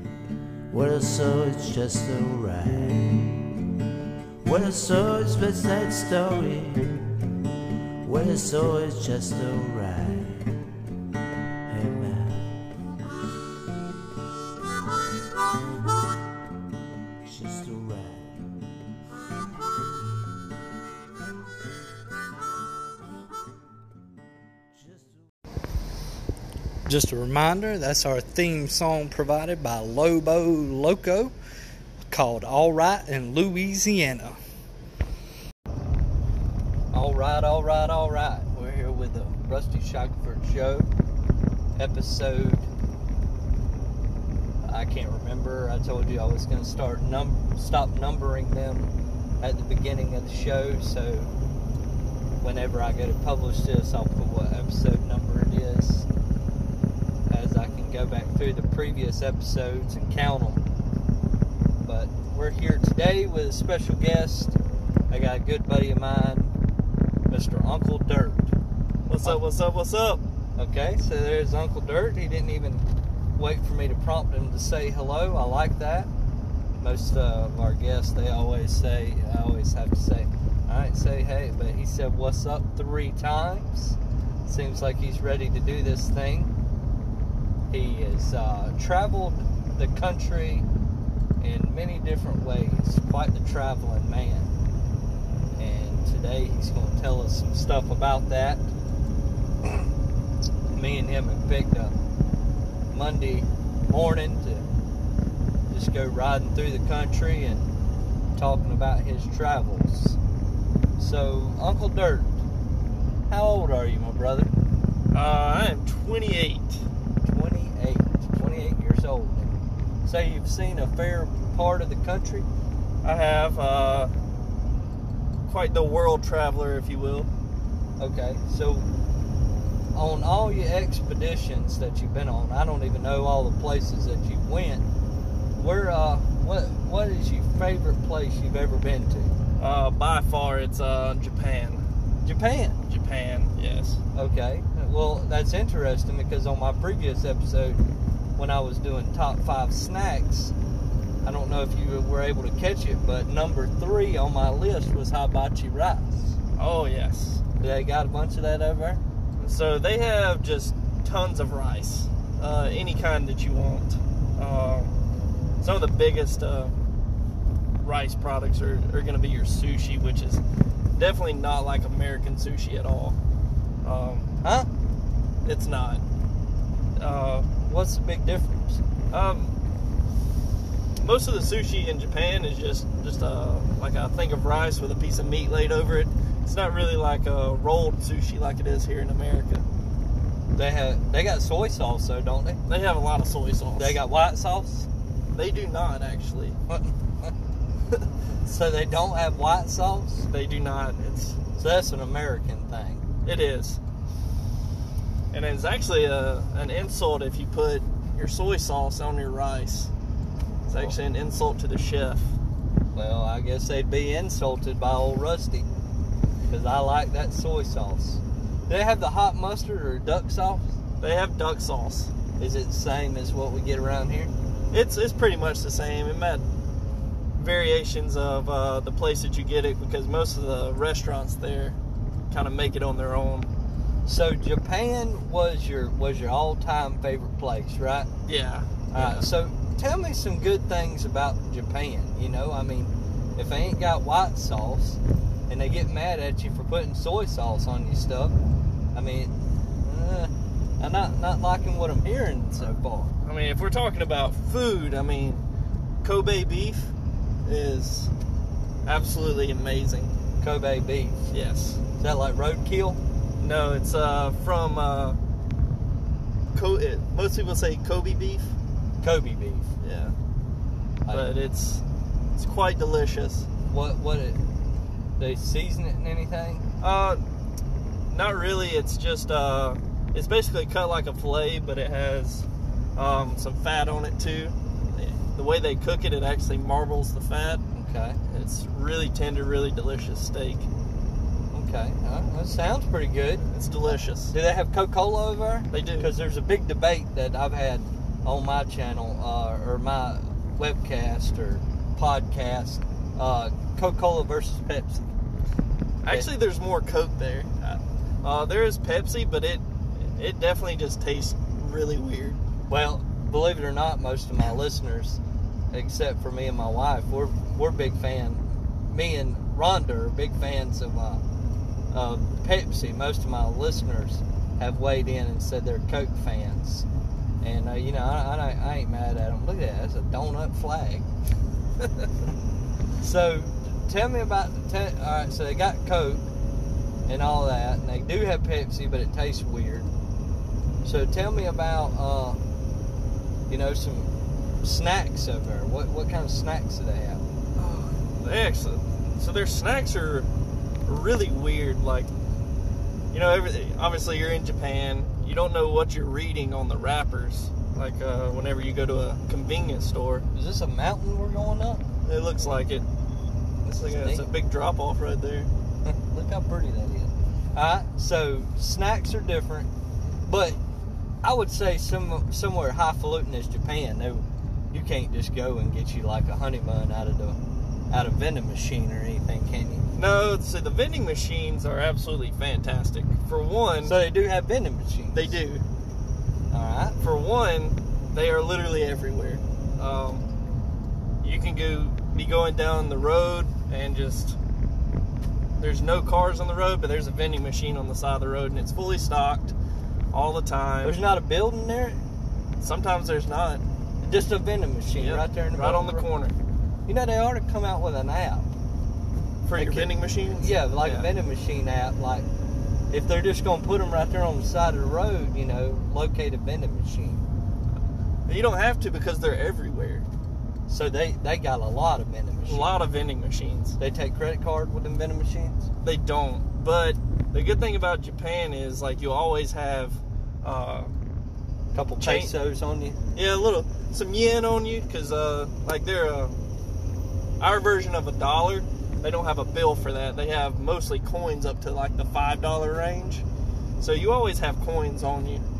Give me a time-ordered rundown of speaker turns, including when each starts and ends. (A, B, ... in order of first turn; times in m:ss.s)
0:00.7-0:03.4 A
0:04.4-0:07.2 A
0:08.0-0:10.6 A
0:11.7-0:12.6 A
0:17.2-0:18.5 A
0:26.8-0:31.3 B
0:32.1-0:34.4 B
0:36.9-0:40.9 B
0:41.8-0:42.7 B
0:44.6-0:51.3 B
0:52.4-0:56.1 B
0:57.3-1:00.6 B
1:01.8-1:04.6 B
1:05.1-1:06.6 B
1:07.3-1:08.5 B
1:09.0-1:10.2 C
1:10.6-1:12.8 B
1:13.4-1:16.1 B
1:16.8-1:26.5 B
1:27.7-1:30.6 B
1:31.4-1:34.5 B
1:35.6-1:38.7 B
1:40.7-1:42.0 B
1:42.9-1:44.6 B
1:45.7-1:47.7 B
1:48.3-1:50.2 B
1:51.0-1:52.4 B
1:53.3-1:54.5 B
1:55.1-1:56.8 C
1:57.2-2:02.5 B
2:03.0-2:04.1 C
2:05.5-2:07.3 C
2:08.0-2:08.9 B
2:09.9-2:14.8 B
2:15.5-2:19.3 B
2:19.6-2:21.8 C
2:22.2-2:22.8 B
2:22.9-2:24.0 C
2:24.1-2:27.8 B
2:28.4-2:30.5 B
2:31.2-2:36.4 B
2:36.6-2:37.4 C
2:37.6-2:39.0 B
2:39.4-2:44.9 C
2:45.6-2:46.7 C
2:47.8-2:50.4 C
2:51.0-2:53.2 C
2:53.8-2:54.3 C
2:54.4-2:54.7 B
2:55.4-2:56.0 C
2:57.0-2:57.5 C
2:57.6-2:58.8 B
2:59.1-2:59.5 C
3:01.0-3:09.6 C
3:10.5-3:12.6 B
3:12.7-3:14.0 C
3:13.8-3:14.9 B
3:15.3-3:16.6 C
3:16.7-3:17.3 B
3:18.4-3:20.3 B
3:20.3-3:21.4 C
3:21.6-3:23.0 B
3:23.2-3:23.8 C
3:25.3-3:29.9 C
3:30.7-3:32.4 C
3:32.9-3:35.7 B
3:36.5-3:40.7 B
3:41.0-3:42.1 C
3:42.4-3:44.3 B
3:44.7-3:46.4 C
3:47.4-3:51.8 C
3:52.3-3:53.5 C
3:54.0-3:58.1 B
3:58.2-3:59.3 C
3:58.9-4:08.4 B
4:08.9-4:13.1 B
4:12.6-4:15.4 C
4:16.0-4:16.9 C
4:17.4-4:18.1 C
4:18.8-4:20.1 C
4:20.4-4:21.3 B
4:21.3-4:21.8 C
4:22.0-4:23.0 B
4:23.4-4:25.2 C
4:26.5-4:28.5 C
4:29.0-4:29.7 B
4:29.8-4:30.1 C
4:31.1-4:31.8 C
4:32.4-4:33.5 C
4:33.6-4:34.4 B
4:35.2-4:36.6 B
4:36.8-4:37.2 C
4:38.1-4:47.6 C
4:47.7-4:48.2 B
4:48.3-4:50.7 C
4:51.5-4:53.4 B
4:53.4-4:54.3 C
4:54.2-5:05.0 B
4:55.7-4:56.1 C
5:06.0-5:12.4 C
5:12.7-5:21.2 B
5:21.9-5:26.8 B
5:27.4-5:31.1 B
5:33.0-5:36.3 B
5:37.1-5:39.9 B
5:40.8-5:42.4 B
5:43.5-5:44.1 B
5:44.6-5:47.2 B
5:47.6-5:50.3 C
5:50.8-5:52.1 C
5:53.1-6:00.2 C
6:00.3-6:01.8 B
6:02.0-6:02.8 C
6:03.6-6:05.5 C
6:03.8-6:04.3 B
6:05.8-6:09.7 B
6:10.2-6:10.6 B
6:11.2-6:17.4 B
6:17.9-6:19.9 B
6:20.0-6:24.0 C
6:23.8-6:25.4 B
6:25.1-6:25.6 C
6:26.5-6:27.0 B
6:27.0-6:30.2 C
6:31.2-6:34.4 C
6:35.6-6:39.5 C
6:40.1-6:41.0 C
6:40.8-6:42.0 B
6:42.6-6:43.6 C
6:44.0-6:46.1 B
6:45.0-6:46.4 C
6:46.8-6:48.5 B
6:49.4-6:51.1 C
6:49.5-6:52.3 B
6:52.9-6:57.2 B
6:58.3-7:00.0 C
7:00.7-7:02.8 B
7:02.5-7:03.8 C
7:03.8-7:05.7 B
7:05.8-7:10.9 C
7:11.7-7:13.0 B
7:12.0-7:12.3 C
7:13.1-7:16.4 C
7:17.4-7:23.2 C
7:23.8-7:25.5 C